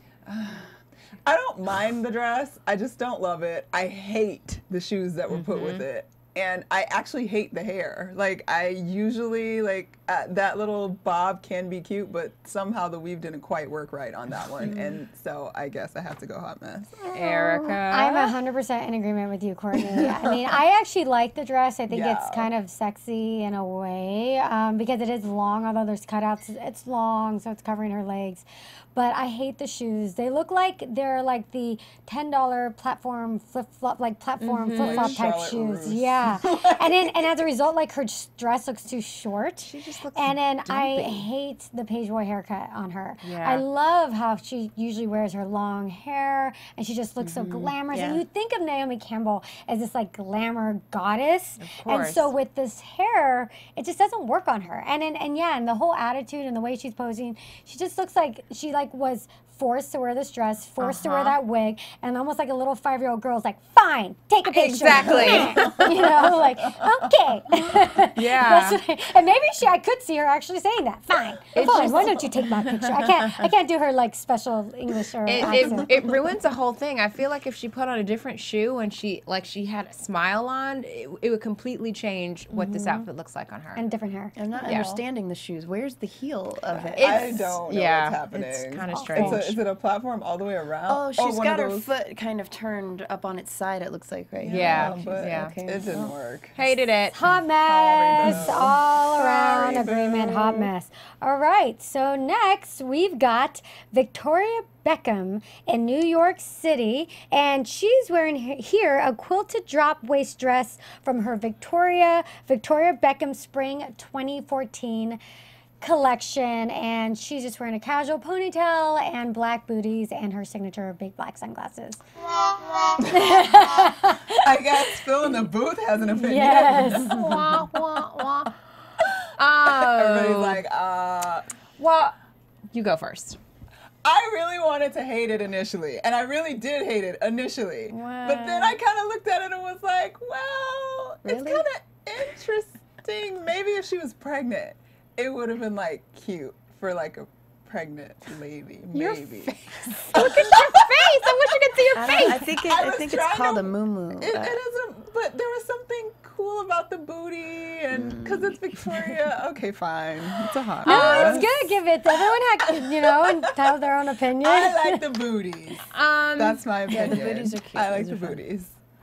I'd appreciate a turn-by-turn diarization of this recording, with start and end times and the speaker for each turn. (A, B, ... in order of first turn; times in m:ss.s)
0:00.3-0:17.1 A
0:05.3-0:05.9 B
0:17.1-0:18.3 B
0:17.9-1:15.9 C
0:19.8-0:20.6 A
0:21.9-0:22.5 A
0:34.4-0:35.2 B
0:34.8-0:37.3 A
0:39.6-0:41.2 B
0:43.2-0:43.6 B
0:47.2-0:48.2 D
0:51.6-0:52.3 B
1:00.8-1:01.4 B
1:04.5-1:05.8 B
1:05.0-1:07.1 A
1:08.2-1:08.8 B
1:11.6-1:12.3 B
1:11.6-1:12.2 A
1:15.3-1:23.8 B
1:15.5-1:16.0 A
1:22.5-1:23.1 C
1:23.8-1:24.8 C
1:24.4-1:27.4 D
1:24.6-1:24.9 B
1:24.7-1:25.0 A
1:26.7-1:31.9 A
1:27.0-1:29.6 B
1:28.9-1:29.4 C
1:30.9-1:36.1 D
1:34.4-1:36.6 A
1:34.5-1:35.5 B
1:36.6-1:37.2 B
1:37.1-1:55.2 C
1:37.3-1:40.7 A
1:55.8-2:02.0 C
2:03.0-2:04.8 C
2:03.0-2:08.3 A
2:06.1-2:07.3 C
2:06.9-2:10.6 B
2:09.6-2:11.5 A
2:11.8-2:12.1 B
2:12.7-2:13.4 B
2:14.0-2:29.6 A
2:18.0-2:18.4 C
2:18.0-2:18.6 B
2:21.3-2:21.6 B
2:29.0-2:32.4 C
2:29.8-2:30.3 B
2:30.1-2:43.7 A
2:32.0-2:34.6 D
2:37.9-2:38.6 D
2:40.8-2:41.5 B
2:40.8-2:45.0 C
2:44.4-2:48.7 A
2:45.9-2:47.2 B
2:46.9-2:48.4 D